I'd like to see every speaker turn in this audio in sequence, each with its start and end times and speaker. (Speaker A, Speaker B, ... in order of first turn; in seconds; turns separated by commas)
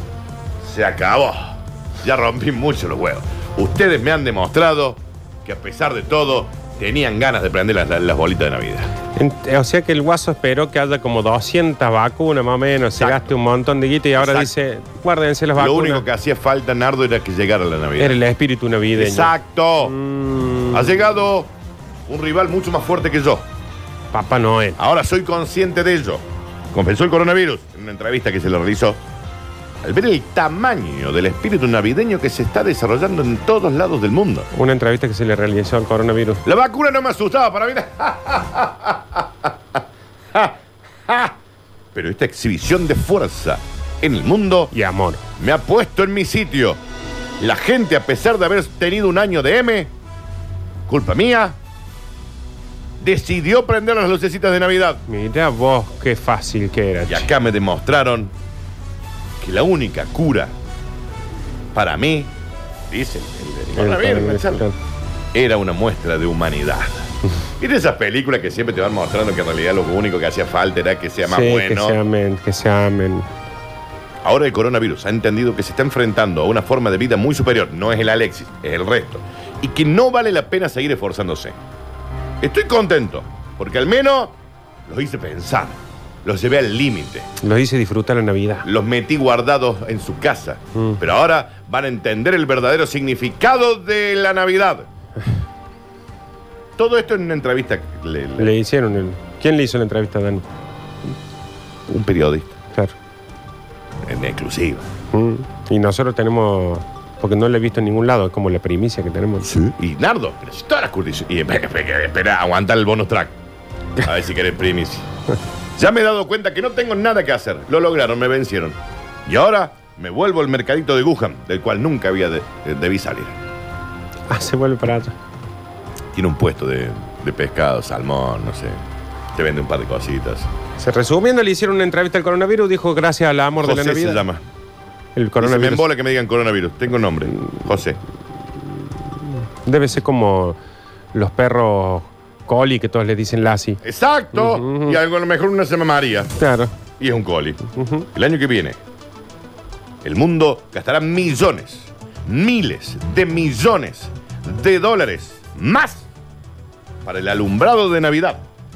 Speaker A: 0.6-8.9, Speaker B: 9.1-16.0, Speaker A: 13.0-13.3, Speaker A: 14.2-14.5, Speaker A: 15.6-18.2, Speaker B: 18.0-20.9, Speaker A: 18.9-20.0, Speaker A: 20.7-21.5, Speaker A: 22.1-23.5, Speaker B: 24.1-24.8, Speaker A: 24.8-29.0, Speaker A: 29.8-34.5, Speaker B: 34.5-36.4, Speaker A: 36.4-39.8, Speaker A: 40.3-41.3, Speaker A: 41.9-44.7, Speaker B: 44.7-45.2, Speaker A: 45.4-46.8, Speaker A: 47.4-49.9, Speaker A: 50.9-51.6, Speaker A: 53.0-55.0, Speaker B: 55.1-57.3, Speaker A: 57.1-58.3, Speaker A: 59.4-60.5, Speaker A: 61.7-62.3, Speaker A: 62.9-64.7, Speaker B: 63.8-64.7, Speaker A: 65.3-72.0, Speaker B: 71.2-73.3, Speaker A: 74.2-81.6, Speaker A: 82.4-84.3, Speaker A: 84.9-87.3, Speaker B: 87.4-88.7, Speaker A: 88.6-94.9, Speaker A: 96.8-98.5, Speaker B: 98.4-100.4, Speaker A: 101.9-102.5, Speaker A: 104.0-104.9, Speaker B: 105.1-109.5, Speaker A: 109.4-113.3, Speaker A: 114.0-115.1, Speaker A: 115.8-123.4, Speaker B: 124.3-125.1, Speaker A: 126.1-128.8, Speaker A: 129.3-130.5, Speaker B: 130.8-134.2, Speaker A: 133.6-134.4, Speaker B: 135.2-135.9, Speaker A: 135.4-138.0, Speaker B: 139.6-140.6, Speaker B: 141.1-143.8, Speaker A: 143.8-146.3, Speaker B: 144.3-145.0, Speaker B: 146.4-146.7, Speaker A: 147.0-147.6, Speaker B: 147.8-148.1, Speaker A: 148.1-148.8, Speaker A: 150.0-156.1, Speaker A: 157.0-158.4